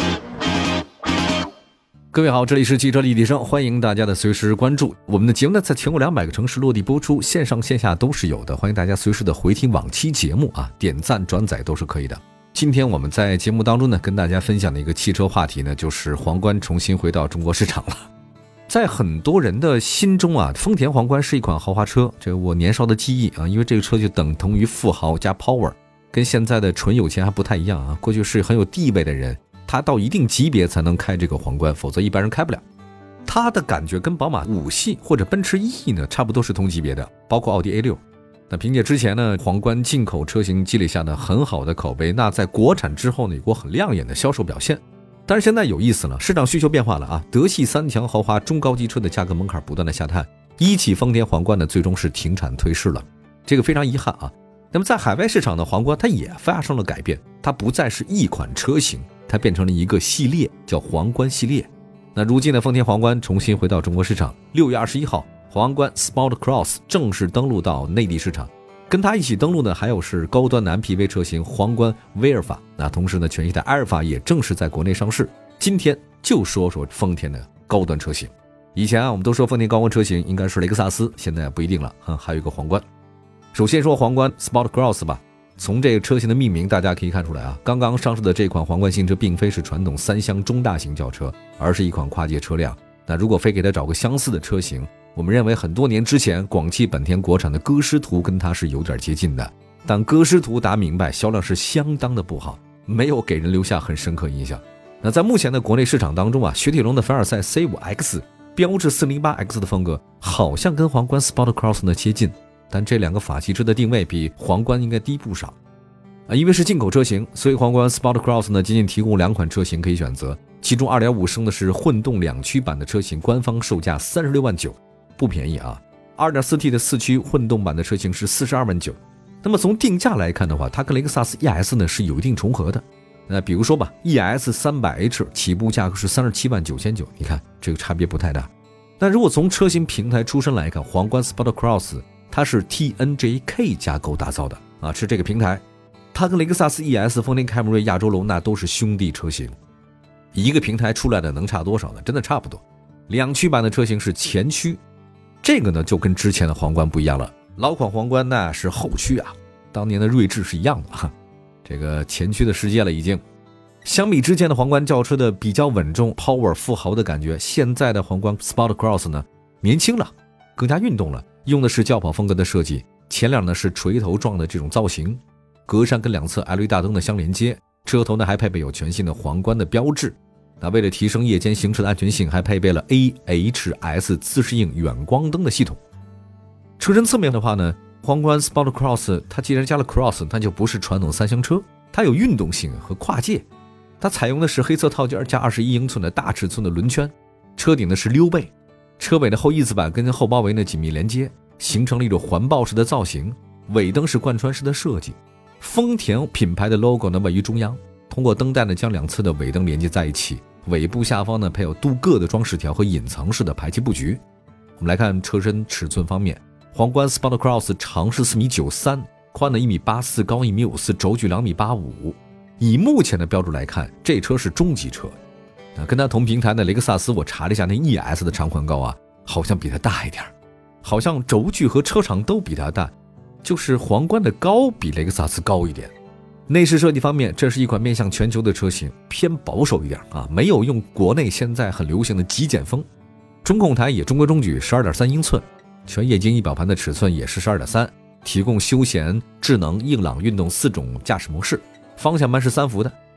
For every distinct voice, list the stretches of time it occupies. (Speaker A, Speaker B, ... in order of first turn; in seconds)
Speaker A: 2.1-18.1, 18.7-32.6, 33.3-82.8, 83.5-115.6, 116.3-149.6, 150.3-154.8, 155.4-161.1, 161.7-163.2, 163.8-185.8, 186.8-193.5, 194.0-214.2, 214.8-225.2, 225.8-230.3, 230.8-235.9, 236.5-242.9, 243.4-253.0